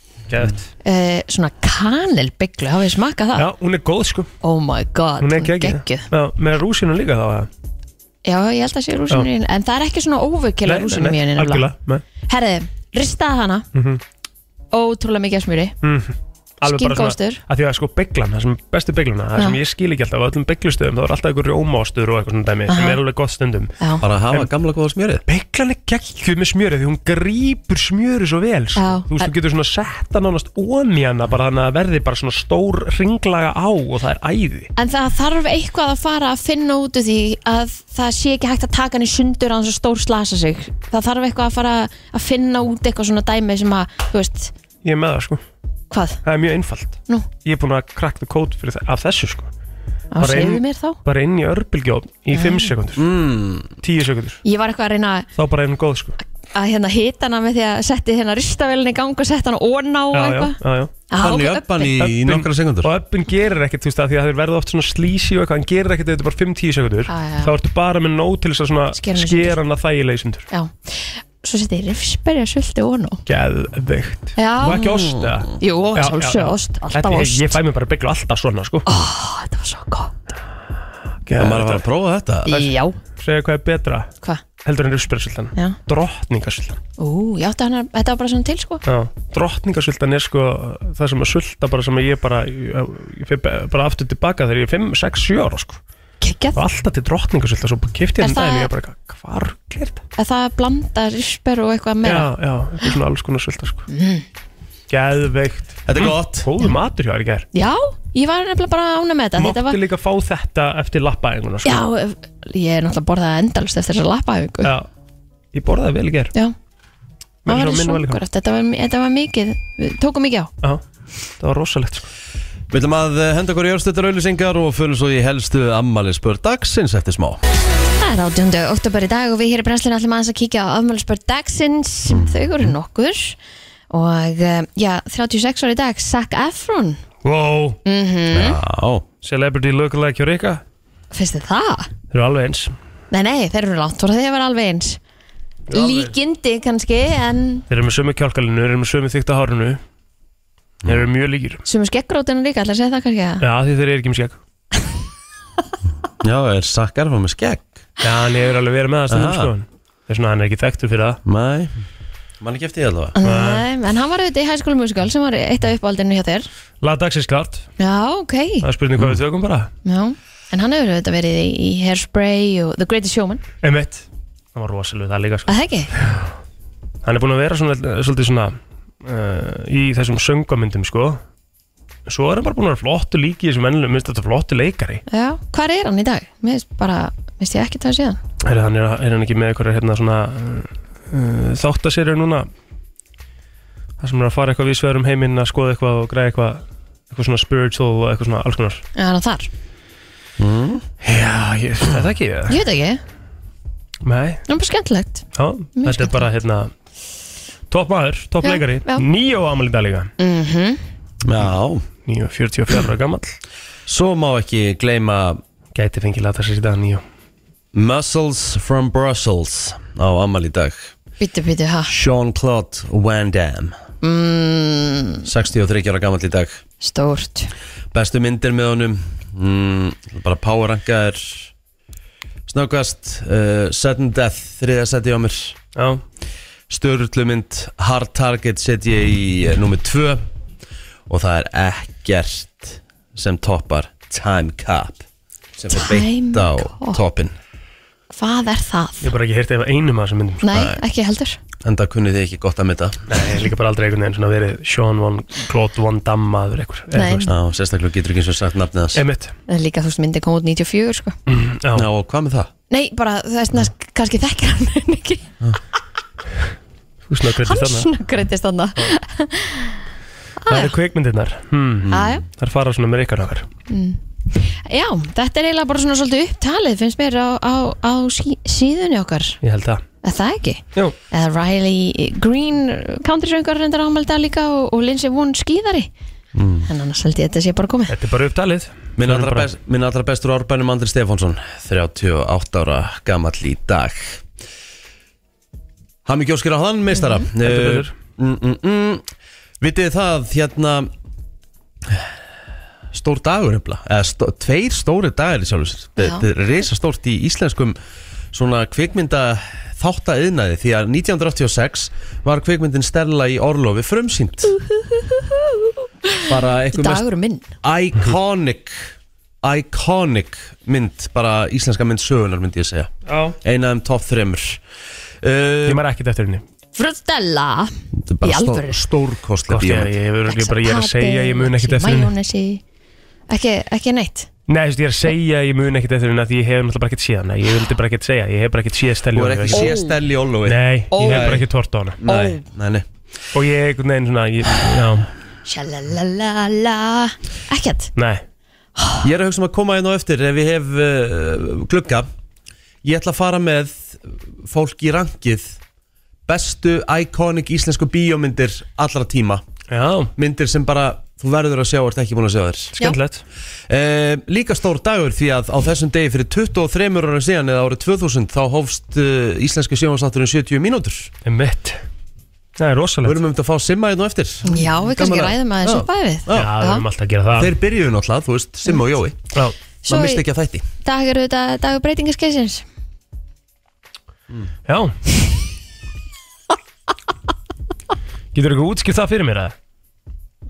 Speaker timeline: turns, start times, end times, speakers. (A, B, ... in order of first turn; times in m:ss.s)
0:00.3-0:00.7 A
0:00.8-0:03.5 B
0:03.4-0:04.3 A
0:04.4-0:06.1 B
0:05.2-0:07.5 A
0:08.2-0:11.7 B
0:10.6-0:12.0 A
0:12.3-0:13.7 B
0:13.7-0:14.0 A
0:14.7-0:15.8 B
0:15.8-0:23.7 A
0:16.6-0:17.4 B
0:22.7-0:23.0 B
0:24.0-0:25.2 C
0:25.3-0:34.7 A
0:28.8-0:29.3 B
0:34.8-0:44.5 B
0:44.8-0:45.4 A
0:45.9-0:46.2 B
0:46.2-0:49.5 A
0:50.1-0:51.0 B
0:50.2-0:53.1 A
0:52.3-0:52.7 B
0:53.0-0:53.8 C
0:53.8-0:54.4 A
0:54.4-0:55.3 B
0:55.4-0:56.2 A
0:56.5-1:00.6 B
1:00.1-1:00.9 A
1:01.1-1:02.0 B
1:01.2-1:02.9 C
1:02.0-1:10.5 A
1:07.1-1:07.5 B
1:09.0-1:09.6 B
1:10.5-1:13.2 B
1:13.3-1:18.9 A
1:14.4-1:15.0 B
1:14.7-1:15.5 C
1:15.6-1:17.6 B
1:18.9-1:20.1 B
1:21.3-1:21.8 A
1:21.4-1:22.5 C
1:22.5-1:23.0 B
1:22.5-1:24.1 A
1:24.6-1:26.8 A
1:27.0-1:28.8 B
1:28.9-1:35.8 A
1:36.2-1:36.6 B
1:36.6-1:40.0 A
1:38.2-1:38.7 B
1:40.2-1:42.3 B
1:42.0-1:43.9 A
1:43.9-1:44.2 B
1:44.9-1:47.5 A
1:45.9-1:46.5 C
1:47.5-1:49.8 B
1:49.4-1:51.9 A
1:51.6-1:54.7 B
1:55.5-1:56.3 A
1:57.5-1:58.2 A
1:57.5-2:00.5 B
2:01.4-2:02.1 A
2:02.7-2:07.4 C
2:08.0-2:13.4 B
2:12.1-2:12.8 C
2:13.9-2:17.0 B
2:17.2-2:17.8 A
2:17.8-2:18.6 B
2:18.3-2:19.0 C
2:19.2-2:20.6 A
2:21.1-2:21.9 B
2:22.1-2:22.7 A
2:23.1-2:25.0 B
2:25.7-2:26.1 A
2:25.7-2:27.6 B
2:27.7-2:29.8 A
2:30.9-2:31.6 A
2:31.6-2:33.4 B
2:33.4-2:34.4 A
2:36.2-2:37.7 C
2:38.0-2:41.2 A
2:39.1-2:39.5 C
2:41.2-2:41.7 C
2:42.4-2:43.2 C
2:43.2-2:46.5 B
2:43.2-2:43.7 A
2:46.8-2:47.7 A
2:47.8-2:48.7 B
2:48.6-2:49.7 A
2:49.8-2:53.4 B
2:53.6-2:56.2 A
2:55.5-2:55.9 B
2:57.0-3:01.2 A
3:02.1-3:05.0 A
3:05.1-3:08.2 B
3:08.4-3:12.5 A
3:14.0-3:18.8 A
3:19.0-3:19.5 B
3:20.4-3:20.9 C
3:21.0-3:22.6 A
3:22.5-3:23.0 B
3:24.0-3:24.4 A
3:24.5-3:25.3 B
3:25.4-3:26.7 A
3:25.8-3:26.2 B
3:27.7-3:30.1 A
3:28.4-3:29.1 B
3:30.2-3:30.8 B
3:31.2-3:31.8 C
3:32.1-3:33.4 A
3:33.9-3:35.4 C
3:35.8-3:37.0 A
3:37.7-3:40.9 C
3:41.2-3:41.9 B
3:41.9-3:43.8 C
3:44.0-3:45.3 B
3:45.3-3:46.6 C
3:46.8-3:47.5 B
3:47.9-3:51.5 C
3:52.5-3:55.6 C
3:55.8-3:56.0 A
3:56.7-4:00.2 C
4:01.1-4:05.0 C
4:05.6-4:07.4 C
4:05.7-4:07.0 B
4:08.1-4:09.1 B
4:09.0-4:10.4 A
4:10.4-4:11.4 B
4:10.5-4:10.8 C
4:11.6-4:13.0 C
4:13.1-4:17.3 A
4:17.0-4:17.3 B
4:17.3-4:19.0 C
4:19.0-4:19.3 A
4:19.5-4:21.2 B
4:21.3-4:21.9 A
4:21.7-4:22.5 C
4:22.7-4:25.3 B
4:27.1-4:27.9 A
4:27.4-4:29.8 B
4:30.4-4:30.7 B
4:30.5-4:33.5 A
4:31.8-4:32.2 C
4:31.9-4:32.2 B
4:33.7-4:39.4 B
4:39.4-4:39.8 A
4:40.0-4:45.9 B
4:46.4-4:46.7 C
4:46.7-4:47.9 B
4:47.9-4:49.5 A
4:49.0-4:54.2 C
4:56.0-4:59.0 C
4:57.0-4:57.2 B
4:57.4-4:57.9 A
4:59.6-5:00.9 C
5:02.9-5:07.8 C
5:06.0-5:06.2 B
5:08.3-5:14.5 C
5:14.5-5:16.2 B
5:16.3-5:17.0 C
5:16.7-5:17.5 B
5:17.6-5:24.6 C
5:23.1-5:23.4 A
5:25.2-5:25.8 C
5:25.7-5:26.4 A
5:26.8-5:28.8 B
5:28.0-5:29.9 C
5:29.5-5:32.1 A
5:30.3-5:32.6 B
5:33.3-5:34.3 B
5:34.5-5:39.7 A
5:39.1-5:41.5 C
5:39.5-5:40.0 B
5:40.5-5:42.0 A
5:40.9-5:41.4 B
5:42.0-5:42.9 C
5:42.0-5:42.4 B
5:43.3-5:45.1 A
5:45.5-5:47.9 B
5:48.0-5:48.2 A
5:48.8-5:49.0 B
5:49.0-5:52.1 C
5:52.8-5:55.6 C
5:56.3-5:59.4 C
5:59.7-6:00.1 A
6:00.2-6:02.8 C
6:02.8-6:03.2 A
6:03.7-6:11.1 C
6:11.2-6:11.8 A
6:12.6-6:13.2 A
6:13.0-6:16.6 C
6:14.4-6:16.8 B
6:16.3-6:17.5 A
6:17.4-6:19.2 C
6:19.8-6:20.2 B
6:19.9-6:20.7 C
6:20.8-6:22.6 B
6:24.7-6:25.0 A
6:28.3-6:29.5 A